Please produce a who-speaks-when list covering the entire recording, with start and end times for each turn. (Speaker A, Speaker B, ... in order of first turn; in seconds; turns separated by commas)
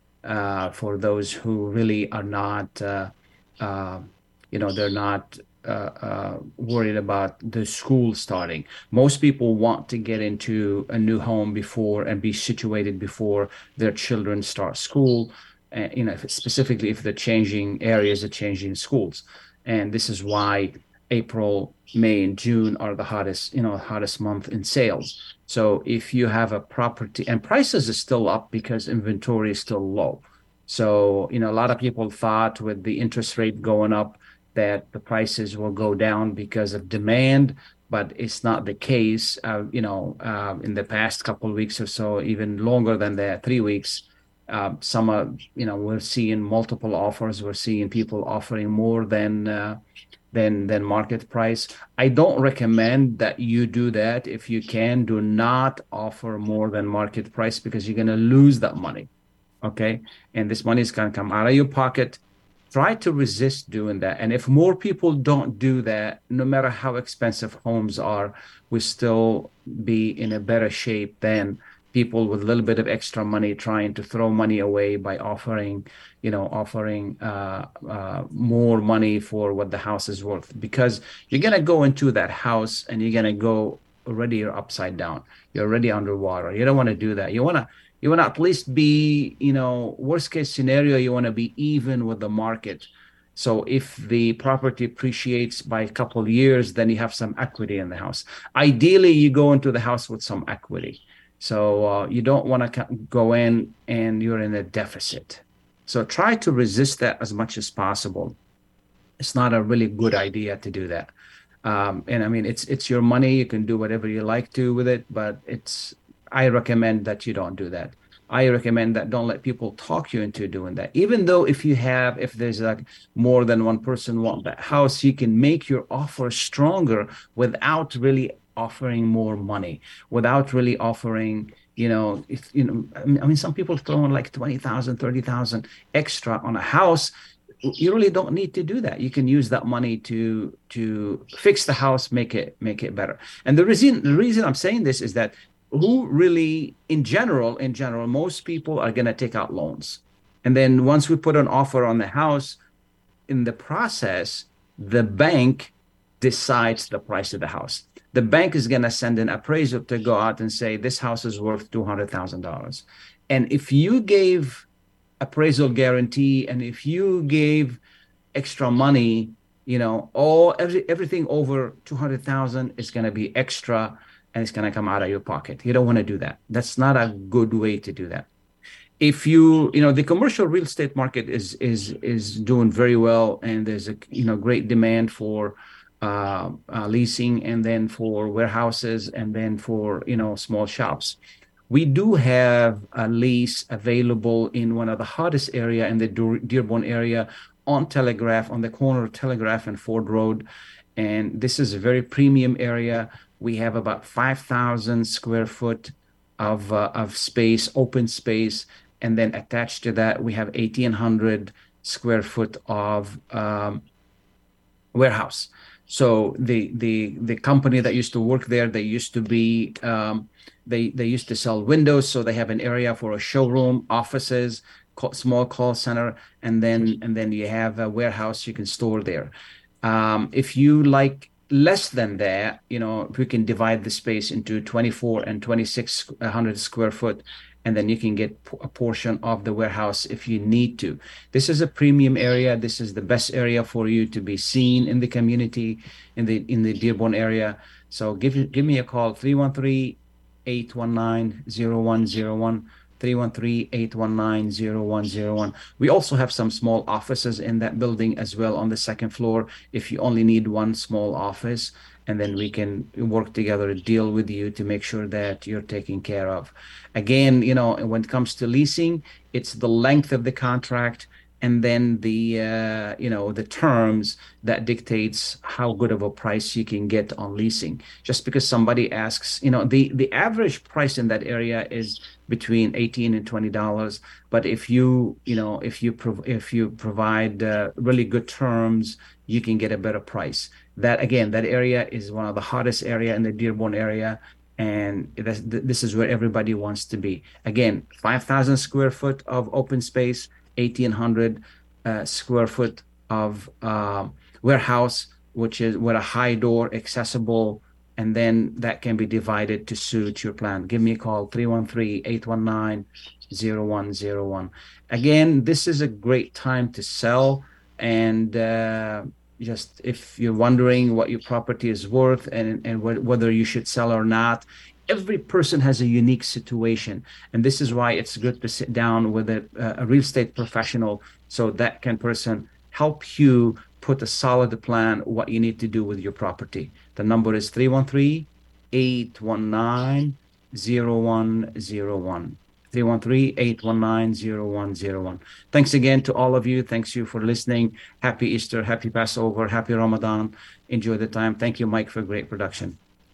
Speaker A: 0.2-49.8, Speaker A: 50.3-59.1, Speaker A: 59.6-62.2, Speaker A: 62.7-108.3, Speaker A: 109.2-111.1, Speaker A: 111.6-137.1, Speaker A: 137.6-152.6, Speaker A: 153.3-164.6, Speaker A: 165.2-167.8, Speaker A: 168.3-178.3, Speaker A: 179.0-191.2, Speaker A: 191.7-200.4, Speaker A: 201.0-213.8, Speaker A: 214.9-352.8